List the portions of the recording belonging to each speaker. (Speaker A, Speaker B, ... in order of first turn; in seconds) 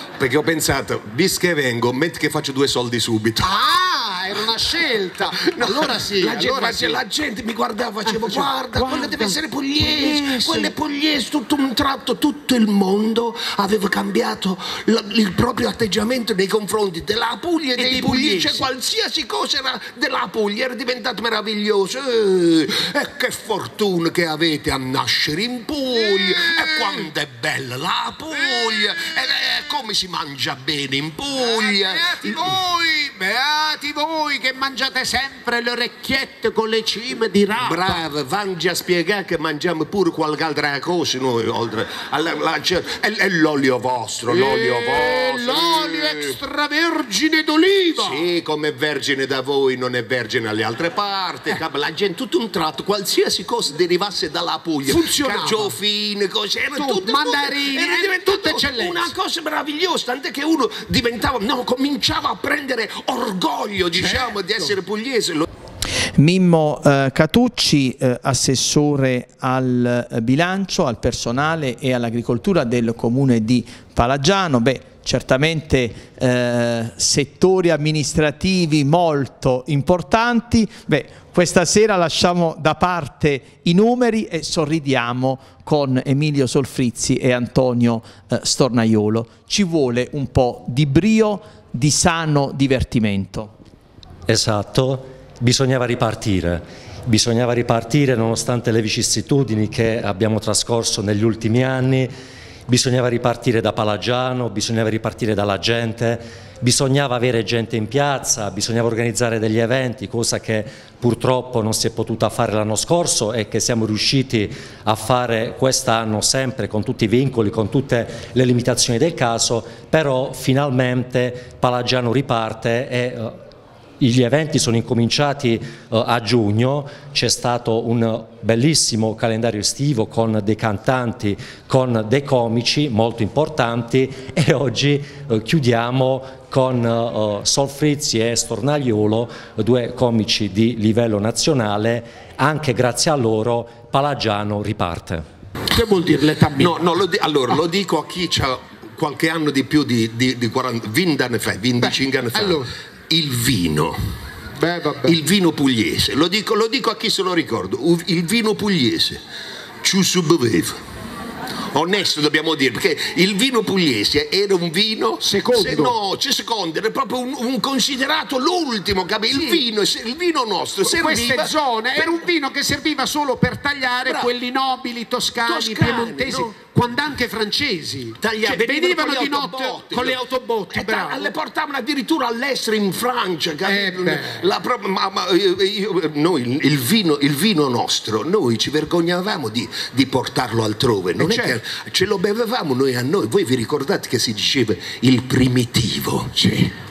Speaker A: 0.2-3.5, 5.3-32.5, 37.6-46.3, 48.0-65.5, 146.6-154.0, 155.0-159.2, 159.8-160.8, 161.7-172.2, 174.0-174.3, 175.4-176.5, 178.2-180.2, 180.7-196.3
Speaker B: 3.4-7.0, 8.1-10.7, 17.7-18.6, 25.9-27.1, 28.3-29.3, 31.4-38.0, 44.3-48.2, 54.8-55.8, 56.7-59.1, 63.9-64.7, 145.7-146.8, 151.8-152.7, 154.6-155.2, 165.2-165.9, 169.3-169.6, 170.8-181.3, 183.6-184.5, 191.2-191.6, 196.3-196.7
Speaker C: 66.2-93.5
Speaker D: 94.3-102.1, 102.7-123.4, 124.0-145.2